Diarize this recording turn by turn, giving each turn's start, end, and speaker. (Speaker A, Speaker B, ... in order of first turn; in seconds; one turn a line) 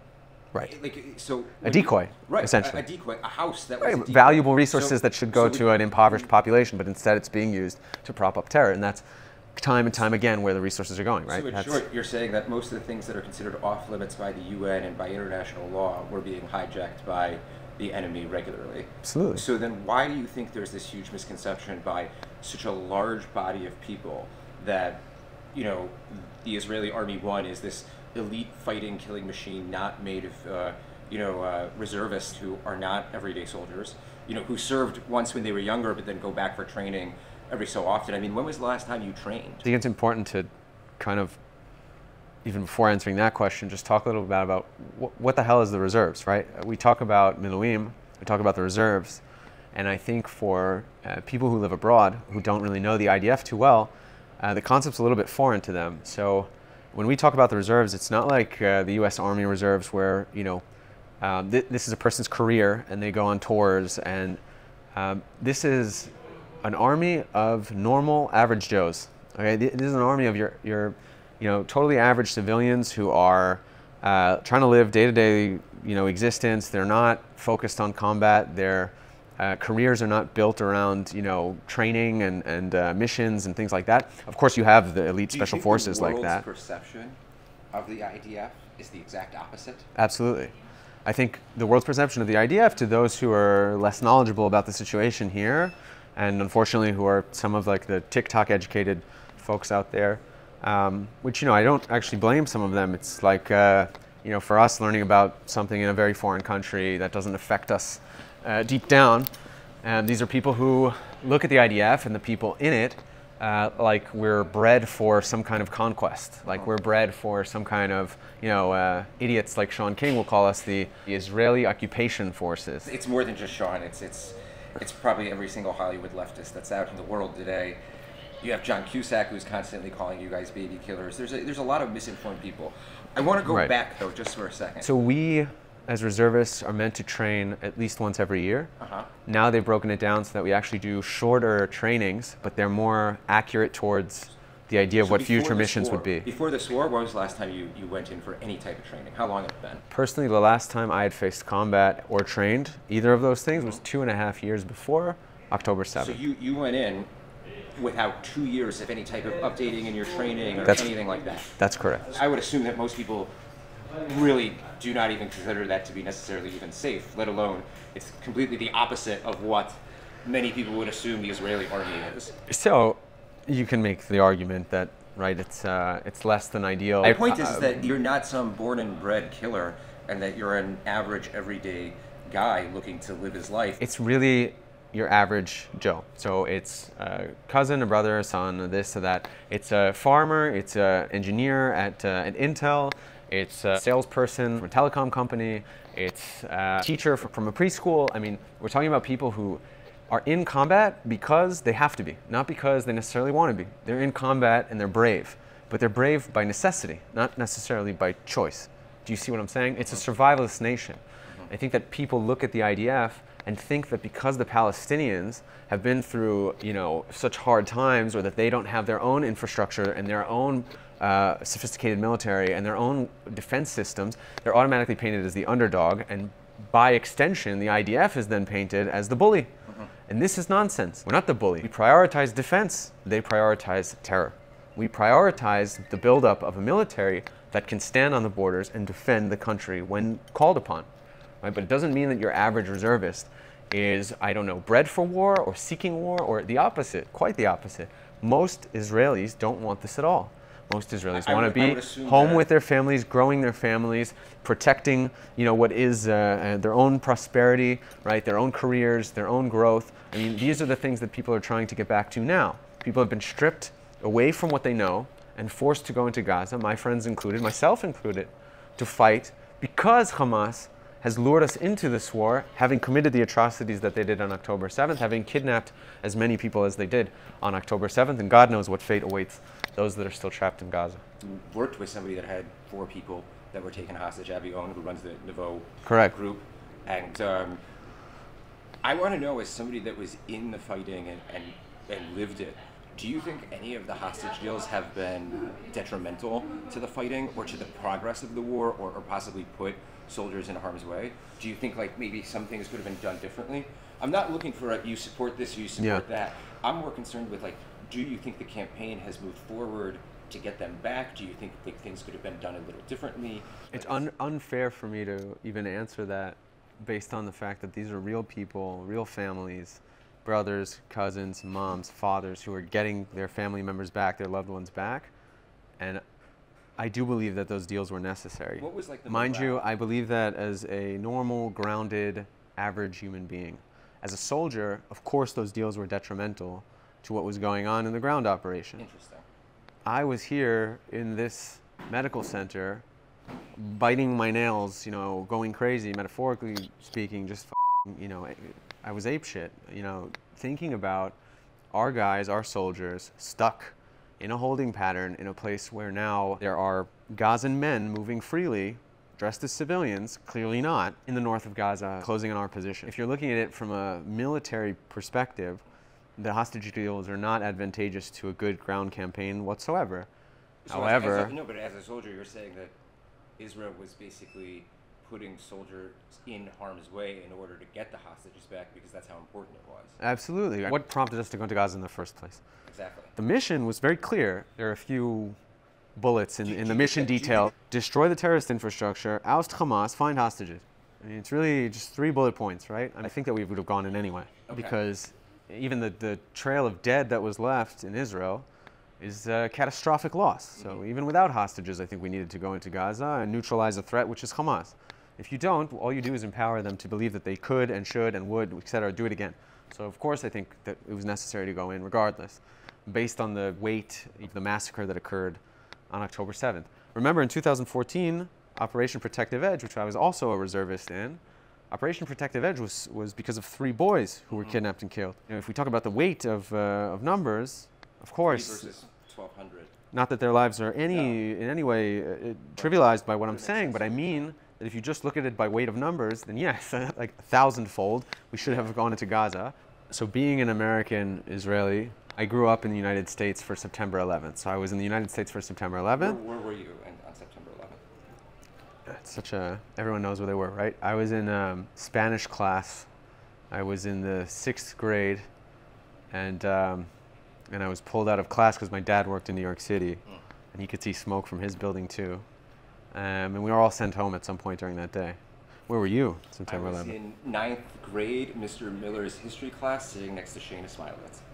Speaker A: 0.6-6.2
Speaker B: 1.6-2.8
Speaker B: 3.8-11.8
Speaker A: 11.3-39.7
Speaker B: 19.0-19.4
Speaker B: 39.6-41.4
Speaker B: 42.4-49.2
Speaker B: 49.7-60.6
Speaker B: 61.2-64.4
Speaker B: 64.9-86.5
Speaker A: 85.3-87.2
Speaker A: 87.7-89.9
Speaker B: 90.0-90.5
Speaker B: 91.0-109.3
Speaker B: 109.8-122.9
Speaker A: 122.8-127.8
Speaker A: 128.4-134.9
Speaker B: 133.4-133.7
Speaker B: 134.8-138.7
Speaker A: 138.8-139.1
Speaker B: 139.3-146.3
Speaker A: 145.0-149.8
Speaker B: 149.9-156.2
Speaker A: 156.0-157.1
Speaker A: 157.8-161.5
Speaker B: 160.7-160.9
Speaker B: 161.6-162.1
Speaker A: 162.1-163.3
Speaker A: 164.0-172.4
Speaker B: 172.5-177.9
Speaker A: 177.0-183.8
Speaker B: 183.8-229.5
Speaker B: 230.1-240.9
Speaker B: 241.4-281.0
Speaker A: 251.1-252.5
Speaker A: 281.2-287.6
Speaker B: 285.9-286.1
Speaker A: 288.8-314.0
Speaker B: 305.8-306.0
Speaker B: 313.7-325.1
Speaker B: 326.8-338.8
Speaker A: 328.6-329.7
Speaker A: 338.8-339.3
Speaker B: 339.9-342.8
Speaker B: 343.6-351.2
Speaker B: 351.7-365.6
Speaker B: 366.2-370.1
Speaker A: 370.7-372.7
Speaker B: 370.7-371.4
Speaker A: 373.4-380.0
Speaker B: 380.0-382.4
Speaker A: 382.7-383.1
Speaker B: 383.2-385.4
Speaker B: 386.0-398.5
Speaker A: 386.4-387.5
Speaker A: 394.5-394.8
Speaker B: 399.0-421.2
Speaker B: 421.7-428.7
Speaker A: 424.3-424.6
Speaker A: 428.2-429.7
Speaker B: 429.9-446.2
Speaker A: 430.9-431.2
Speaker A: 432.6-434.3
Speaker A: 446.0-447.8
Speaker B: 448.9-452.9
Speaker B: 453.5-455.3
Speaker B: 456.1-456.9
Speaker B: 457.5-462.3
Speaker B: 462.9-466.9
Speaker A: 466.5-471.2